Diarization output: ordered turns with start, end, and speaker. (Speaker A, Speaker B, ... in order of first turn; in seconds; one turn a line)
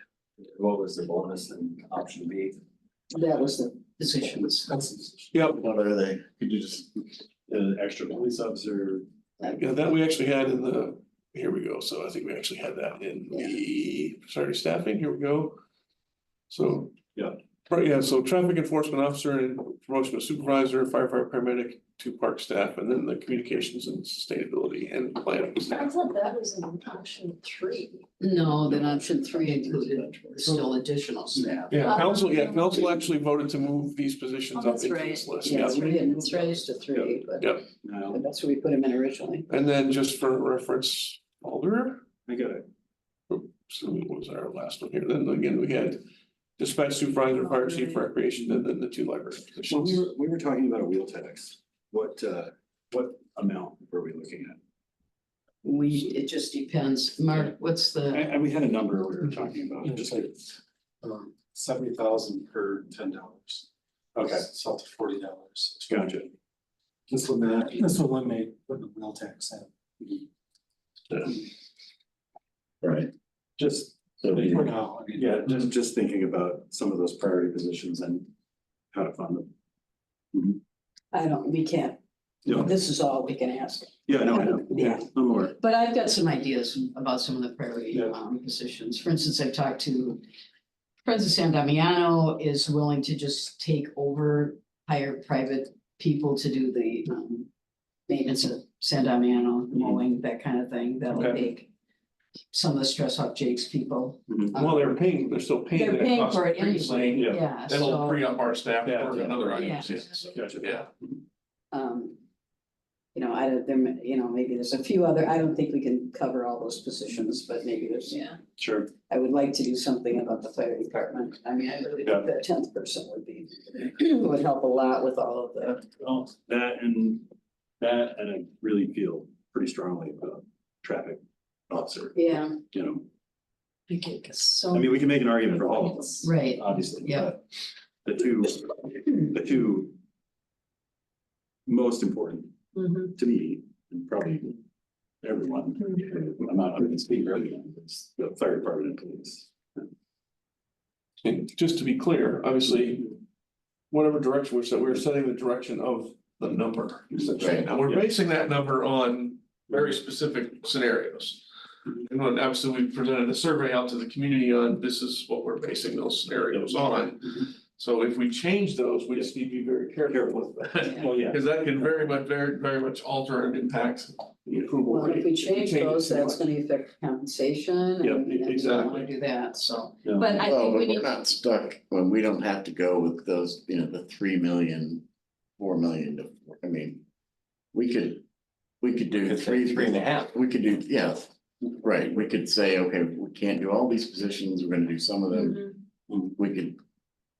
Speaker A: 0.4-2.6
Speaker B: 3.1-4.7
Speaker C: 4.7-5.0
Speaker A: 5.0-5.5
Speaker D: 5.4-7.0
Speaker A: 7.5-9.1
Speaker E: 9.6-15.6
Speaker E: 16.5-16.9
Speaker E: 17.7-25.9
Speaker F: 25.7-28.0
Speaker B: 28.2-31.7
Speaker A: 28.6-30.6
Speaker E: 31.7-35.9
Speaker F: 31.8-32.9
Speaker F: 34.5-36.8
Speaker B: 35.4-37.5
Speaker E: 37.4-37.7
Speaker A: 37.8-38.2
Speaker B: 38.1-39.5
Speaker E: 39.5-42.0
Speaker A: 42.3-42.7
Speaker E: 43.3-46.0
Speaker E: 46.6-50.0
Speaker A: 49.7-54.6
Speaker B: 55.6-58.3
Speaker A: 58.1-60.6
Speaker C: 59.8-60.3
Speaker C: 61.0-66.2
Speaker A: 64.2-64.5
Speaker A: 65.9-66.3
Speaker C: 67.1-69.7
Speaker D: 72.8-73.1
Speaker A: 73.6-78.3
Speaker D: 74.3-74.5
Speaker C: 74.3-75.4
Speaker A: 78.9-79.5
Speaker A: 80.3-80.6
Speaker B: 81.1-90.2
Speaker A: 82.5-82.7
Speaker A: 84.1-85.5
Speaker B: 91.0-97.5
Speaker B: 98.1-101.7
Speaker A: 99.7-100.0
Speaker A: 101.1-101.4
Speaker B: 102.5-104.9
Speaker E: 104.5-110.9
Speaker B: 105.7-108.2
Speaker A: 107.2-107.4
Speaker A: 108.8-109.4
Speaker B: 109.5-110.0
Speaker A: 110.3-111.2
Speaker B: 111.7-112.2
Speaker B: 113.1-118.2
Speaker F: 118.1-118.4
Speaker A: 118.6-118.9
Speaker B: 119.0-125.9
Speaker A: 122.0-122.3
Speaker A: 126.0-127.3
Speaker A: 127.8-132.2
Speaker B: 132.2-132.6
Speaker A: 132.7-133.1
Speaker F: 133.9-134.9
Speaker A: 134.7-137.4
Speaker F: 135.7-136.1
Speaker B: 136.2-137.3
Speaker A: 138.0-140.0
Speaker A: 141.7-144.6
Speaker A: 145.2-149.8
Speaker E: 151.2-153.1
Speaker E: 153.9-161.4
Speaker D: 157.4-157.7
Speaker E: 161.9-176.5
Speaker A: 170.1-171.4
Speaker B: 174.9-180.5
Speaker A: 178.0-178.3
Speaker E: 178.3-179.1
Speaker A: 180.0-180.4
Speaker F: 180.2-181.1
Speaker D: 180.4-185.1
Speaker D: 185.6-187.0
Speaker D: 187.7-188.2
Speaker D: 188.8-195.7
Speaker D: 196.2-196.8